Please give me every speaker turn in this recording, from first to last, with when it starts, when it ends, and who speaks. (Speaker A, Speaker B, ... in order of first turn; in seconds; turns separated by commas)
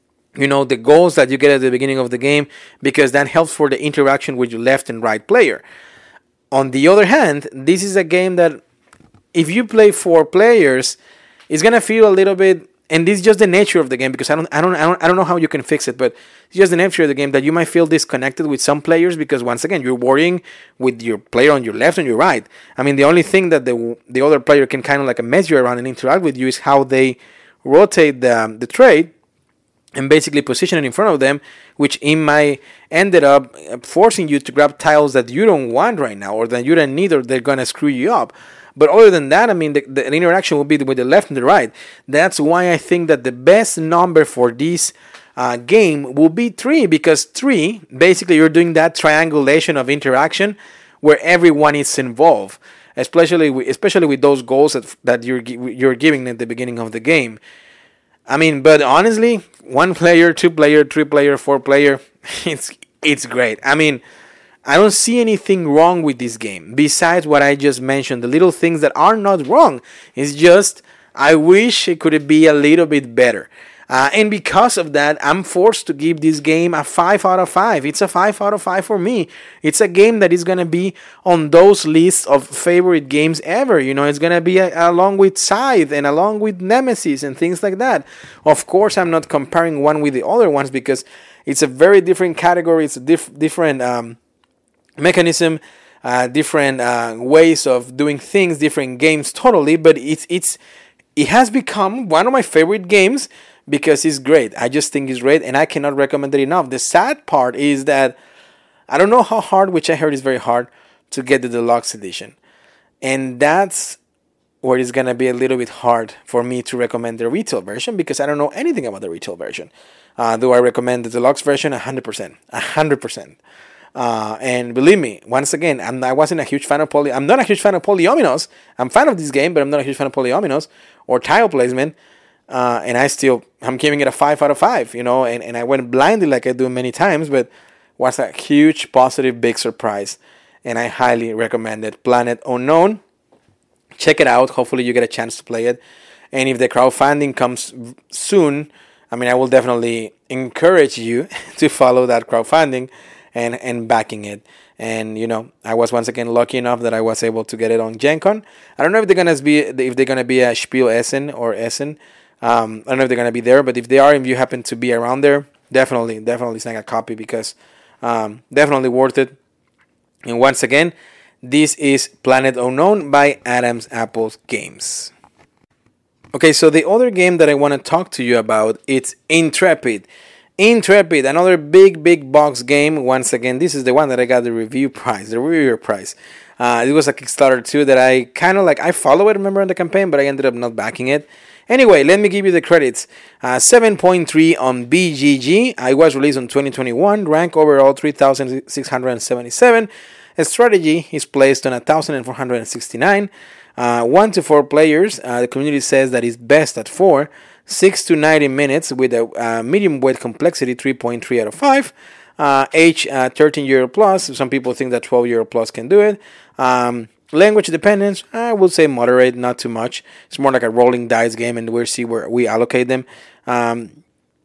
Speaker A: 0.3-5.6, Speaker A: 6.5-8.6, Speaker A: 9.3-10.9, Speaker A: 11.5-29.1, Speaker A: 29.9-57.4, Speaker A: 58.3-64.0, Speaker A: 64.7-94.2, Speaker A: 95.0-100.6, Speaker A: 101.2-108.2, Speaker A: 108.9-112.3, Speaker A: 113.0-114.0, Speaker A: 114.6-123.4, Speaker A: 123.9-131.9, Speaker A: 132.5-143.0, Speaker A: 144.0-145.8, Speaker A: 146.3-169.3, Speaker A: 170.2-170.9, Speaker A: 171.4-175.1, Speaker A: 176.3-180.1, Speaker A: 180.6-223.9